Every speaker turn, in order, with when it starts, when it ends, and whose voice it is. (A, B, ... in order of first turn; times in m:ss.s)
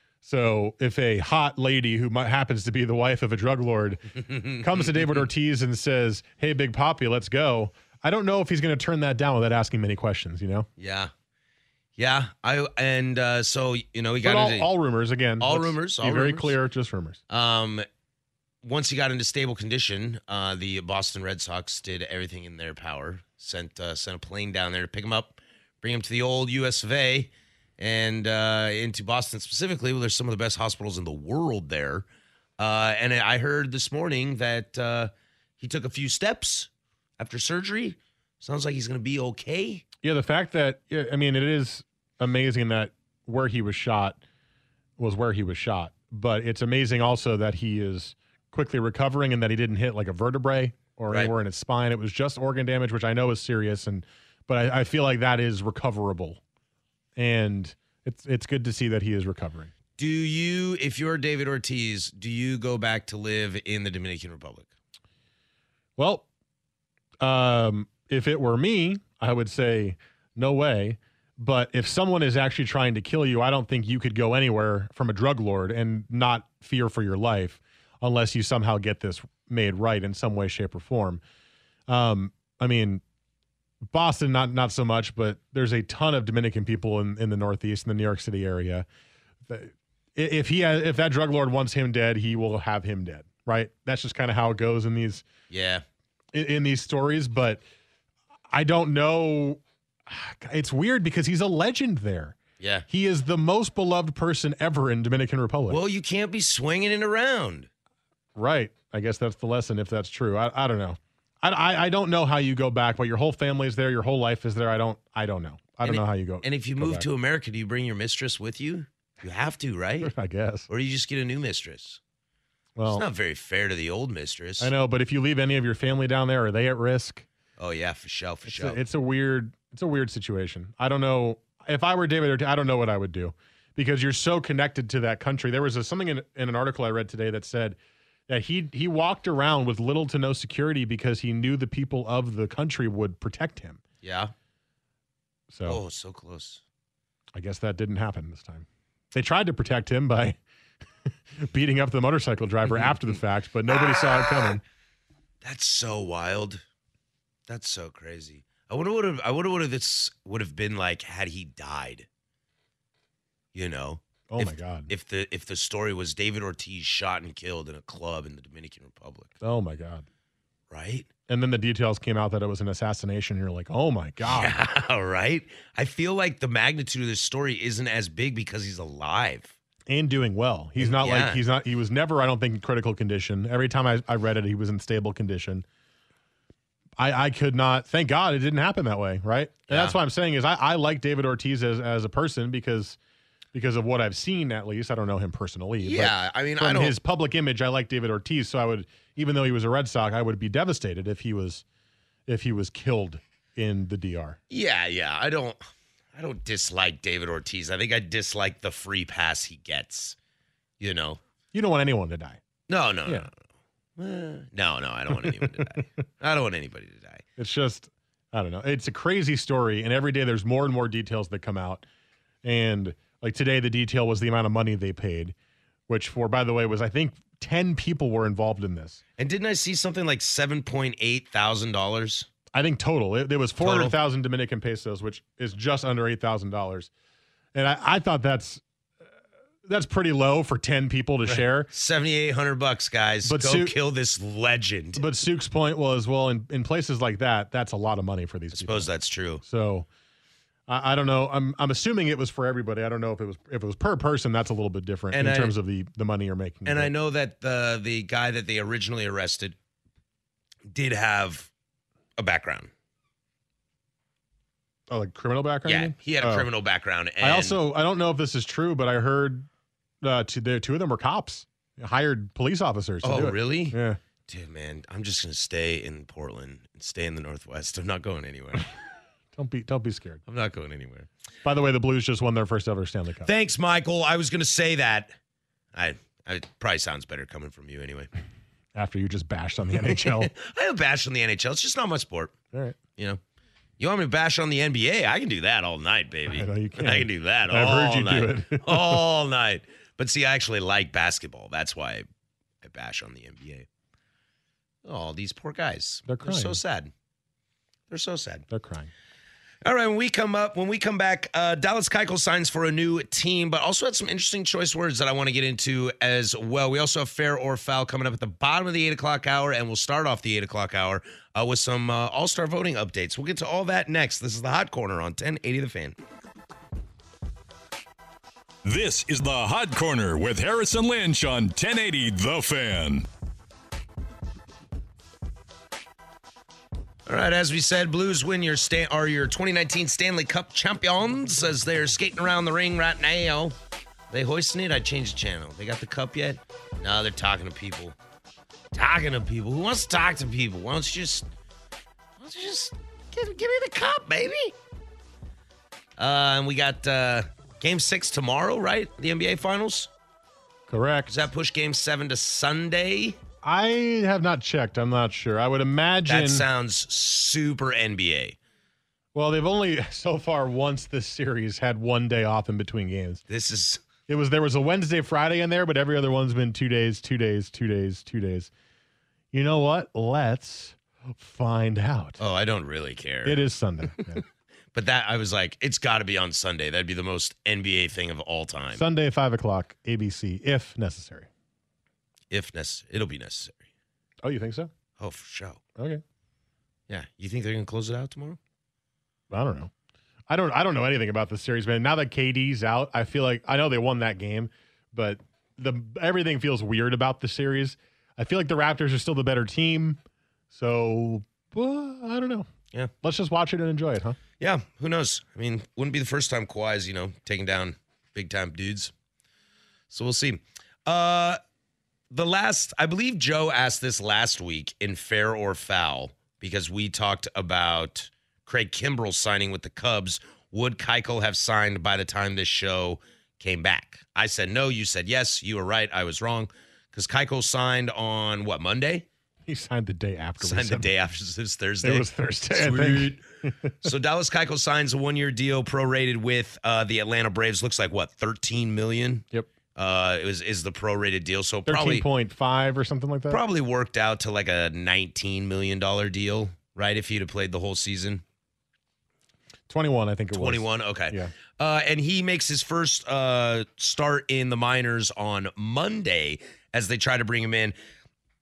0:00.2-0:10.7 A
0:04.2-0:05.3 B
0:10.8-0:11.1 B
0:12.0-0:14.7 B
0:14.2-0:17.2 A
0:15.4-0:16.6 B
0:17.3-0:17.9 B
0:18.6-0:32.1 B
0:32.6-0:39.8 B
0:40.0-0:44.2 A
0:45.0-0:56.4 A
0:57.2-0:59.7 A
1:00.0-1:04.7 B
1:06.0-1:06.3 A
1:07.2-1:21.2 A
1:21.9-1:23.0 A
1:23.9-1:28.9 A
1:29.5-1:35.2 A
1:35.5-1:35.8 B
1:36.3-1:37.6 A
1:38.5-1:42.4 A
1:42.6-1:42.9 B
1:42.9-1:45.8 A
1:45.7-1:47.7 B
1:48.4-1:57.1 A
1:55.8-2:00.1 B
2:00.0-2:00.7 A
2:00.7-2:02.0 B
2:02.8-2:03.0 A
2:02.9-2:04.7 B
2:04.6-2:07.3 A
2:07.6-2:08.8 B
2:08.5-2:23.8 A
2:24.0-2:24.3 B
2:25.5-2:25.8 A
2:25.6-2:26.6 B
2:27.3-2:30.4 A
2:31.0-2:34.6 A
2:35.4-2:36.6 B
2:37.5-2:42.1 B
2:43.5-2:49.3 B
2:44.3-2:44.9 A
2:49.4-2:50.1 A
2:50.7-2:51.1 B
2:51.3-2:54.6 A
2:54.2-2:59.5 B
2:59.9-3:05.6 A
3:00.8-3:01.4 B
3:07.0-3:13.0 A
3:09.7-3:10.0 B
3:13.5-3:21.6 A
3:15.8-3:17.0 B
3:22.3-3:24.4 A
3:24.5-3:25.6 B
3:26.1-3:30.2 B
3:30.8-3:31.2 B
3:31.5-3:32.4 A
3:32.7-3:33.3 B
3:34.0-3:37.2 B
3:37.4-3:41.9 A
3:42.4-3:45.4 A
3:45.9-3:49.0 A
3:49.2-3:52.3 B
3:52.5-3:56.9 A
3:53.6-3:53.9 B
3:57.5-3:58.6 A
3:59.6-4:01.7 A
4:01.3-4:05.0 B
4:03.2-4:03.8 A
4:05.0-4:09.9 A
4:08.5-4:09.4 B
4:10.7-4:16.9 A
4:15.1-4:15.6 B
4:16.6-4:19.6 B
4:20.7-4:21.5 B
4:22.2-4:22.7 B
4:24.9-4:26.5 A
4:25.6-4:27.6 B
4:27.2-4:29.5 A
4:30.0-4:34.0 A
4:33.0-4:38.7 B
4:39.3-4:40.2 A
4:40.3-4:41.1 B
4:41.4-4:43.3 A
4:43.2-4:45.1 B
4:45.7-4:48.1 B
4:48.8-4:50.3 A
4:49.8-4:52.3 B
4:52.5-4:52.8 A
4:53.8-5:02.1 B
4:56.3-4:59.0 A
5:02.6-5:03.7 B
5:04.8-5:06.9 B
5:06.1-5:06.6 A
5:07.9-5:08.4 B
5:08.5-5:08.9 A
5:09.6-5:26.0 B
5:28.6-5:33.1 C
5:37.1-5:43.6 B
5:44.1-5:48.0 B
5:48.7-5:51.3 B
5:52.2-5:54.6 B
5:56.0-5:59.9 B
6:00.7-6:01.1 A
6:01.1-6:03.2 B
6:03.4-6:06.5 A
6:06.1-6:08.4 B
6:09.1-6:13.2 A
6:13.3-6:13.8 B
6:14.1-6:18.5 A
6:19.3-6:22.2 A
6:22.2-6:23.4 B
6:23.2-6:24.2 A
6:24.7-6:28.8 B
6:28.7-6:31.3 A
6:32.3-6:33.6 B
6:34.2-6:34.7 A
6:35.0-6:35.6 B
6:35.8-6:36.0 A
6:36.9-6:38.4 B
6:39.3-6:39.7 A
6:40.3-6:52.5 A
6:53.0-6:54.2 A
6:54.4-6:58.9 B
6:59.9-7:01.4 B
7:02.1-7:19.1 B
7:19.5-7:20.9 A
7:20.4-7:23.2 B
7:21.8-7:23.9 A
7:23.8-7:32.1 B
7:31.7-7:33.4 A
7:33.3-7:38.2 B
7:39.7-7:41.3 A
7:40.3-7:47.8 B